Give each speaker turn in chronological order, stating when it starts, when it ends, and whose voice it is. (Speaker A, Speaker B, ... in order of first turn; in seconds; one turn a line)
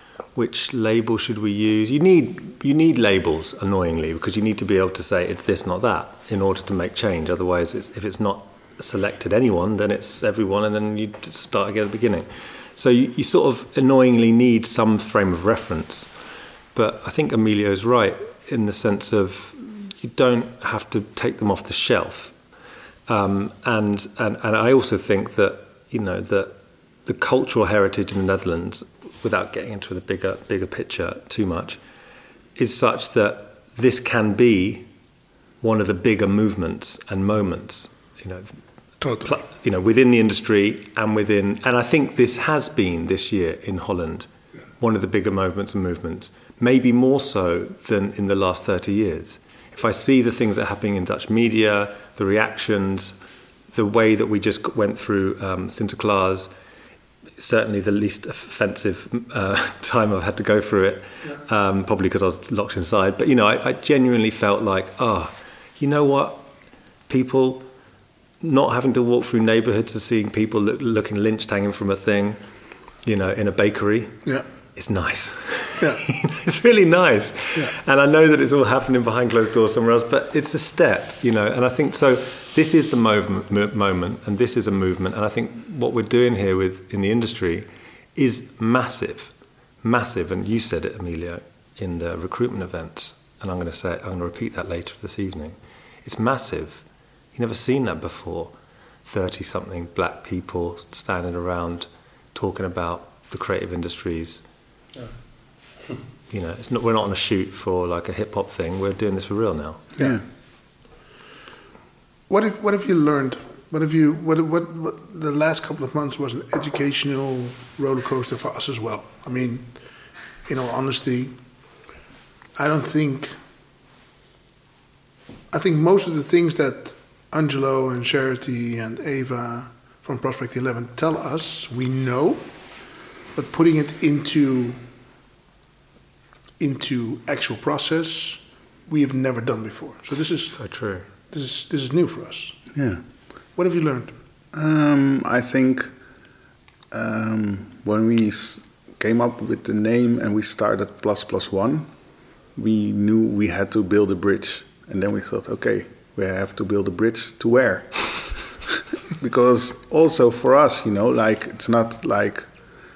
Speaker A: 0.3-16.1
Speaker A: 16.7-22.4
Speaker A: 23.1-31.8
Speaker A: 32.6-34.9
Speaker A: 35.6-38.6
Speaker B: 39.0-39.4
Speaker A: 39.2-44.3
Speaker A: 44.8-53.1
Speaker A: 53.7-56.5
Speaker A: 57.4-66.5
Speaker A: 67.1-67.7
Speaker A: 68.4-72.4
Speaker A: 73.0-98.5
Speaker A: 99.1-104.4
Speaker A: 106.3-109.9
Speaker C: 110.0-110.2
Speaker B: 112.3-121.4
Speaker B: 122.5-123.4
Speaker B: 125.5-132.7
Speaker B: 133.3-134.8
Speaker B: 136.6-142.7
Speaker A: 140.5-141.1
Speaker C: 142.8-143.0
Speaker B: 143.5-144.2
Speaker C: 144.5-145.9
Speaker C: 146.9-151.9
Speaker C: 152.6-162.5